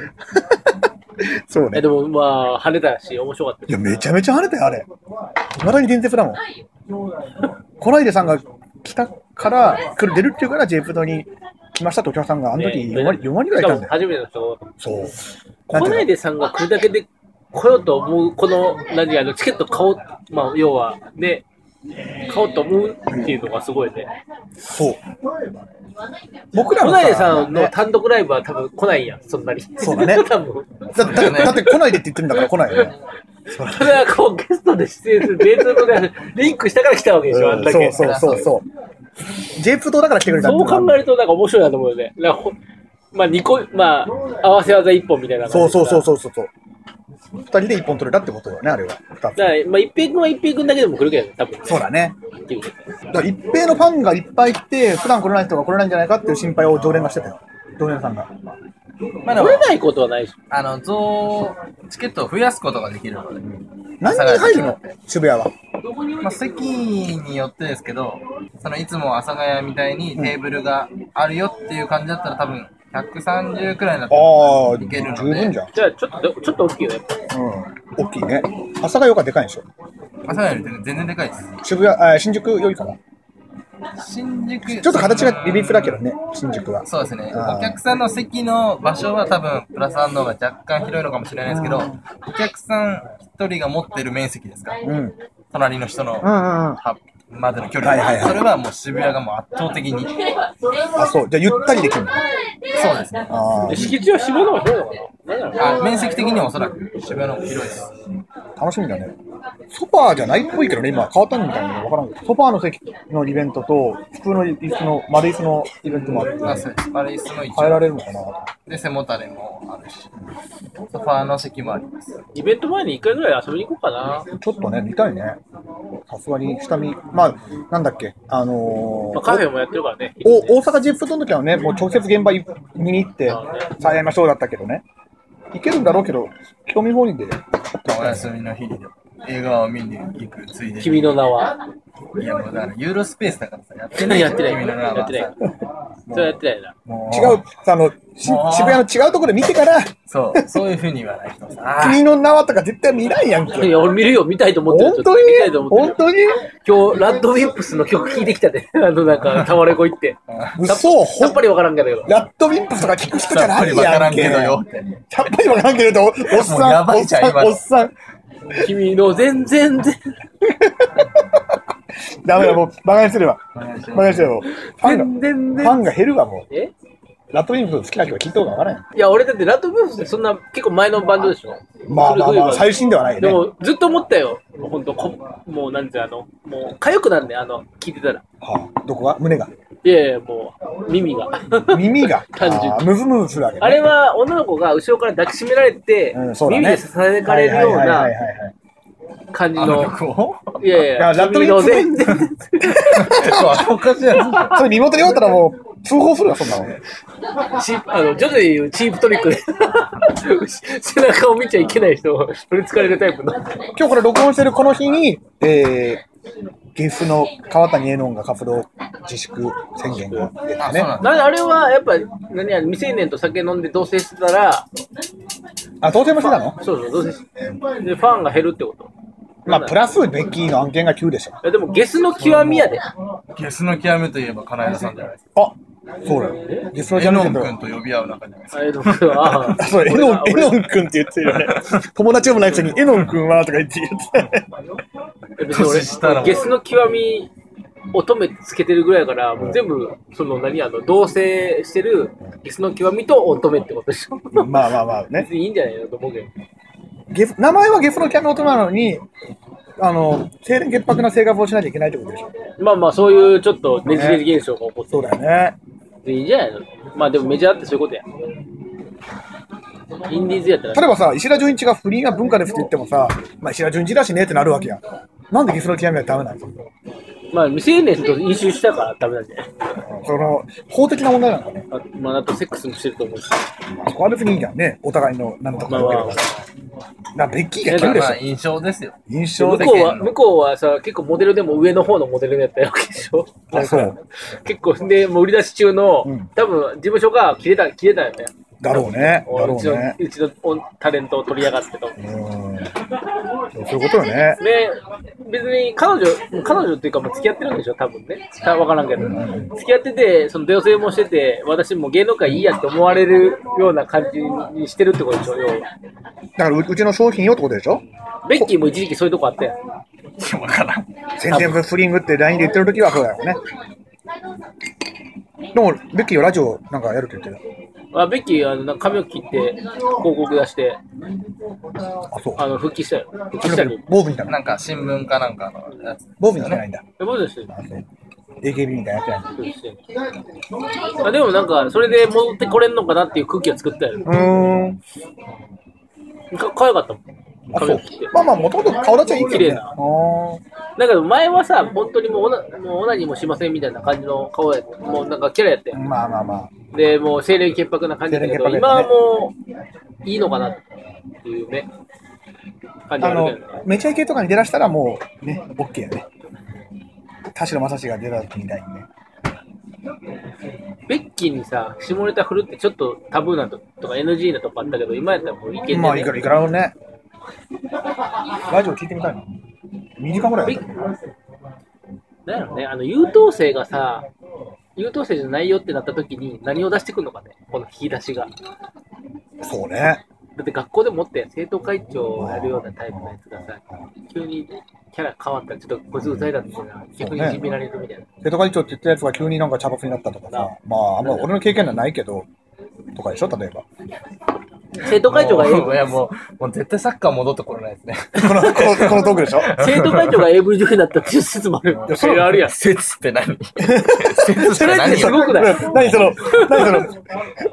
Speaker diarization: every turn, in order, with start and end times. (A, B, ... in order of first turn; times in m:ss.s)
0:00.3-0:01.8 A
0:01.7-0:04.1 B
0:03.7-0:04.9 A
0:05.5-0:06.4 A
0:07.8-0:13.9 A
0:12.5-0:14.7 B
0:14.8-0:16.1 A
0:15.7-0:21.4 B
0:22.2-0:24.1 B
0:23.1-0:23.4 A
0:24.6-0:25.0 A
0:26.5-0:27.7 A
0:26.7-0:31.8 B
0:29.8-0:30.3 A
0:30.9-0:32.9 A
0:31.0-0:31.8 C
0:33.5-0:34.0 A
0:33.6-0:38.3 B
0:35.6-0:35.9 A
0:37.3-0:38.6 A
0:38.0-0:38.5 C
0:39.5-0:41.0 A
0:40.4-0:42.6 B
0:43.1-0:46.0 B
0:45.5-0:46.5 A
0:47.4-0:49.4 A
0:49.4-0:51.8 B
0:51.6-0:52.2 A
0:52.4-0:52.8 B
0:53.1-0:58.6 A
0:59.2-0:59.7 C
0:59.3-1:00.4 B
1:00.5-1:03.5 C
1:04.0-1:05.5 A
1:04.0-1:04.8 C
1:06.2-1:15.6 C
1:14.1-1:15.7 A
1:15.7-1:17.2 B
1:17.3-1:19.6 A
1:20.2-1:21.5 C
1:21.6-1:23.0 A
1:24.0-1:26.0 C
1:24.7-1:27.8 A
1:26.8-1:34.8 C
1:31.5-1:32.0 A
1:34.8-1:35.1 A
1:35.5-1:40.2 C
1:36.2-1:36.8 A
1:37.8-1:38.4 A
1:40.9-1:42.2 A
1:42.7-1:43.3 C
1:43.3-1:44.0 A
1:43.7-1:46.0 B
1:45.6-1:47.9 C
1:48.6-1:49.2 A
1:49.7-1:56.7 A
1:55.9-1:57.9 C
1:57.5-1:58.5 A
1:58.7-2:00.1 C
2:00.9-2:02.1 C
2:02.3-2:04.3 B
2:04.3-2:05.4 A
2:06.1-2:09.4 A
2:09.1-2:10.6 B
2:10.2-2:14.8 A
2:13.2-2:13.8 B
2:15.5-2:18.2 A
2:17.8-2:21.2 C
2:20.8-2:21.6 B
2:22.2-2:25.3 C
2:24.0-2:25.3 B
2:26.1-2:26.3 A
2:26.1-2:26.7 B
2:26.9-2:27.4 C
2:27.1-2:30.5 A
2:28.2-2:28.9 C
2:30.1-2:32.0 C
2:31.8-2:33.8 A
2:33.6-2:36.0 B
2:34.6-2:36.4 A
2:36.6-2:42.1 B
2:40.3-2:40.6 C
2:40.6-2:41.4 A
2:42.0-2:47.9 A
2:43.2-2:44.8 C
2:46.2-2:47.6 C
2:48.5-2:50.0 B
2:50.4-2:51.6 A
2:52.2-2:56.4 A
2:53.6-2:55.8 C
2:57.3-2:58.8 A
2:58.9-3:08.2 B
3:01.9-3:03.4 A
3:08.4-3:09.5 A
3:09.8-3:12.9 B
3:11.6-3:13.9 A
3:13.6-3:18.1 B
3:16.1-3:18.5 A
3:19.3-3:19.9 B
3:19.6-3:20.6 C
3:20.6-3:22.9 B
3:20.9-3:23.7 A
3:22.8-3:24.6 C
3:24.4-3:26.8 A
3:27.5-3:33.6 B
3:33.7-3:36.0 A
3:36.7-3:40.9 A
3:40.6-3:41.2 C
3:41.0-3:44.7 B
3:45.8-3:46.6 A
3:46.2-3:47.3 B
3:47.8-3:48.9 B
3:49.4-3:49.8 B
3:49.5-3:51.4 A
3:51.4-3:52.8 B
3:53.3-3:55.2 C
3:55.3-3:57.5 A
3:56.9-3:59.5 C
3:58.5-4:00.6 B
3:59.4-4:04.4 A
4:01.3-4:01.8 C
4:05.4-4:07.3 B
4:05.5-4:06.5 C
4:07.9-4:16.3 B
4:14.3-4:15.3 A
4:17.1-4:19.0 A
4:19.8-4:22.3 A
4:22.6-4:25.1 B
4:23.9-4:24.2 A
4:24.9-4:25.6 A
4:26.0-4:28.0 B
4:30.0-4:30.9 B
4:30.7-4:36.6 A
4:37.3-4:39.5 B
4:39.8-4:41.7 A
4:41.7-4:43.4 B
4:43.7-4:46.3 A
4:45.7-4:46.4 B
4:47.1-4:48.2 A
4:47.6-4:48.0 B
4:47.7-4:49.0 C
4:49.1-4:49.8 A
4:49.4-5:02.0 B
4:49.6-4:50.1 C
4:53.5-4:54.0 A
4:56.0-4:56.3 A
4:58.6-5:00.0 A
5:02.0-5:02.8 A
5:03.5-5:04.4 A
5:04.4-5:15.7 B
5:09.0-5:09.5 A
5:16.4-5:17.8 A
5:18.2-5:19.6 B
5:20.2-5:20.9 C
5:21.2-5:23.4 A
5:21.3-5:21.6 B
5:25.5-5:27.4 A
5:27.9-5:30.8 B
5:32.1-5:32.5 A
5:32.4-5:33.8 B
5:33.4-5:34.4 A
5:34.3-5:36.6 C
5:36.2-5:36.8 A
5:37.0-5:37.5 B
5:37.5-5:37.8 A
5:38.4-5:39.3 A
5:39.3-5:39.8 B
5:40.9-5:44.2 B
5:44.0-5:44.8 A
5:46.3-5:47.0 B
5:47.5-5:50.4 A
5:47.5-5:48.1 B
5:49.2-5:49.7 B
5:50.8-5:55.8 B
5:55.7-5:56.5 A
5:56.7-5:59.4 B
5:58.1-5:58.9 A
6:00.0-6:00.6 B
6:01.2-6:01.7 B
6:02.9-6:03.6 B
6:03.0-6:06.0 A
6:07.3-6:08.9 A
6:10.9-6:16.2 B
6:15.7-6:16.8 A
6:18.4-6:19.3 A
6:20.0-6:20.9 A
6:22.2-6:24.1 B
6:24.8-6:28.3 B
6:29.4-6:30.0 A
6:30.4-6:38.1 B
6:32.2-6:33.8 A
6:36.0-6:36.3 A
6:37.0-6:37.4 A
6:38.2-6:42.3 A
6:42.9-6:43.6 A
6:44.8-6:45.8 B
6:44.9-6:50.3 C
6:48.2-6:49.5 A
6:49.6-6:52.5 B
6:51.9-6:52.4 A
6:52.1-6:56.2 C
6:53.6-6:57.0 A
6:54.3-6:56.8 B